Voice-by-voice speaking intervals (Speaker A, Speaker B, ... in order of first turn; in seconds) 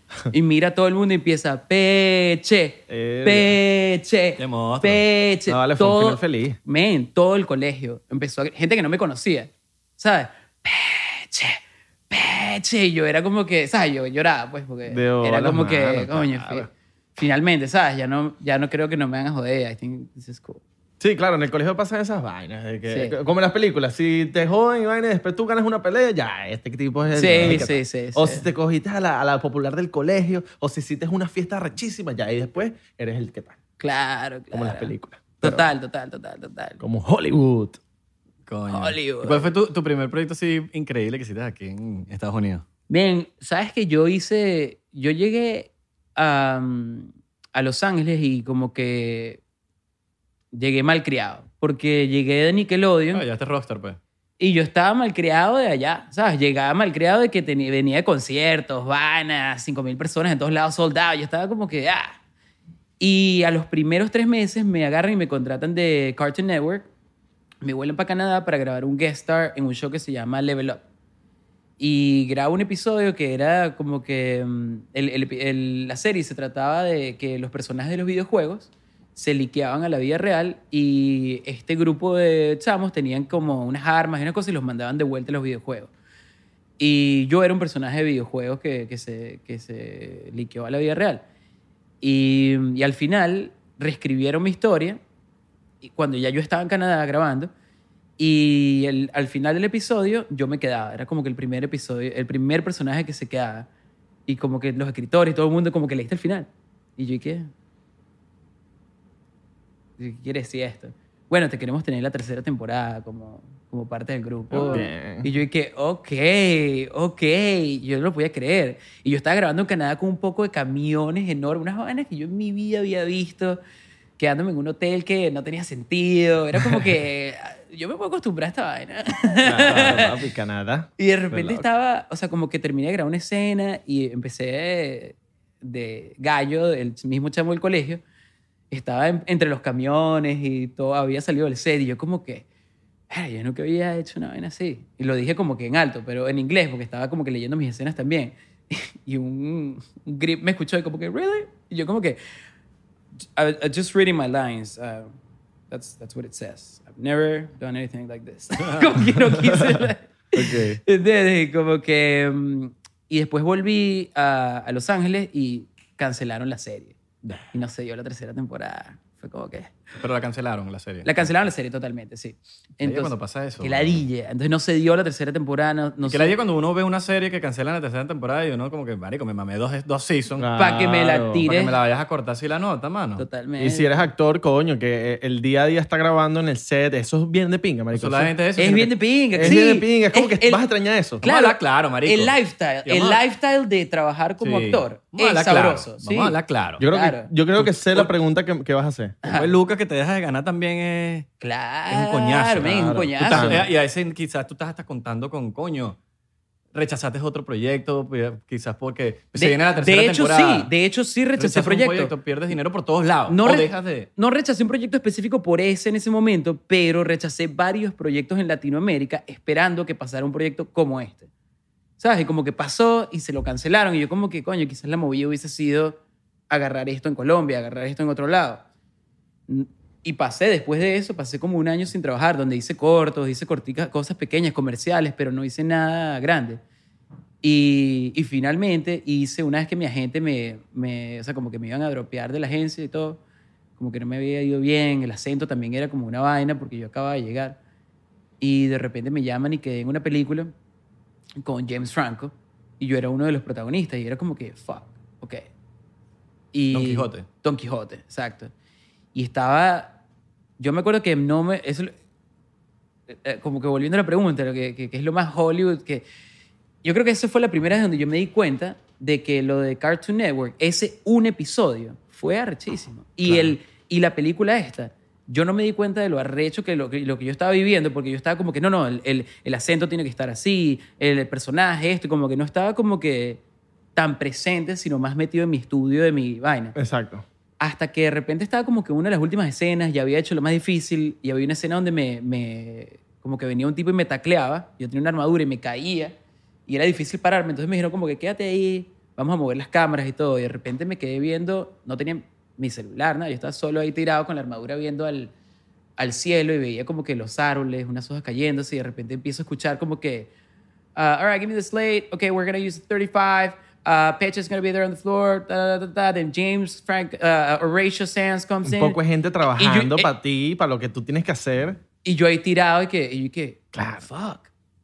Speaker A: 0.3-11.6, 12.1-20.6, 22.9-23.1, 27.1-28.4, 33.8-36.8, 38.7-39.5, 42.9-49.4, 50.5-53.2, 54.4-62.1, 63.0-66.9, 67.6-70.8, 71.8-85.9, 86.8-91.2, 92.0-95.0, 95.8-97.5, 98.2-103.7, 104.3-107.5, 110.0-123.6, 124.2-130.2, 131.0-138.0, 138.7-142.4, 143.1-152.2, 153.3-155.1, 155.7-167.0, 167.5-169.8, 171.0-176.3, 180.6-181.8, 183.2-183.9, 188.6-190.6, 191.2-196.4, 196.9-197.3, 199.2-199.5, 201.4-203.6, 209.3-212.1, 213.3-221.3, 222.0-226.0, 226.5-228.6, 229.5-236.6, 237.4-243.2, 243.8-247.6, 248.4-250.5, 251.4-255.4, 256.5-258.5, 259.1-260.0, 260.6-261.9, 263.1-266.0, 266.8-283.4, 283.9-286.7, 287.6-296.1, 296.7-305.3, 306.0-310.3, 310.9-320.1, 322.0-324.5
Speaker B: 2.9-3.6, 5.5-6.6, 14.9-16.7, 21.0-33.6, 34.5-35.7, 36.8-37.8, 114.5-115.3, 129.4-131.5, 180.4-181.4, 183.6-188.3, 189.3-191.2, 196.8-199.2, 202.7-203.7, 286.7-287.2, 318.6-321.8, 323.7-324.1
Speaker C: 4.4-5.0, 38.5-42.6, 53.1-54.0, 158.6-159.0, 160.3-160.8, 170.0-171.3, 172.8-174.0, 176.1-180.5, 181.3-183.2, 187.9-188.9, 191.2-193.2, 194.4-196.8, 197.6-198.1, 199.3-201.3, 201.9-206.0, 206.7-210.7, 211.4-214.1, 256.7-257.3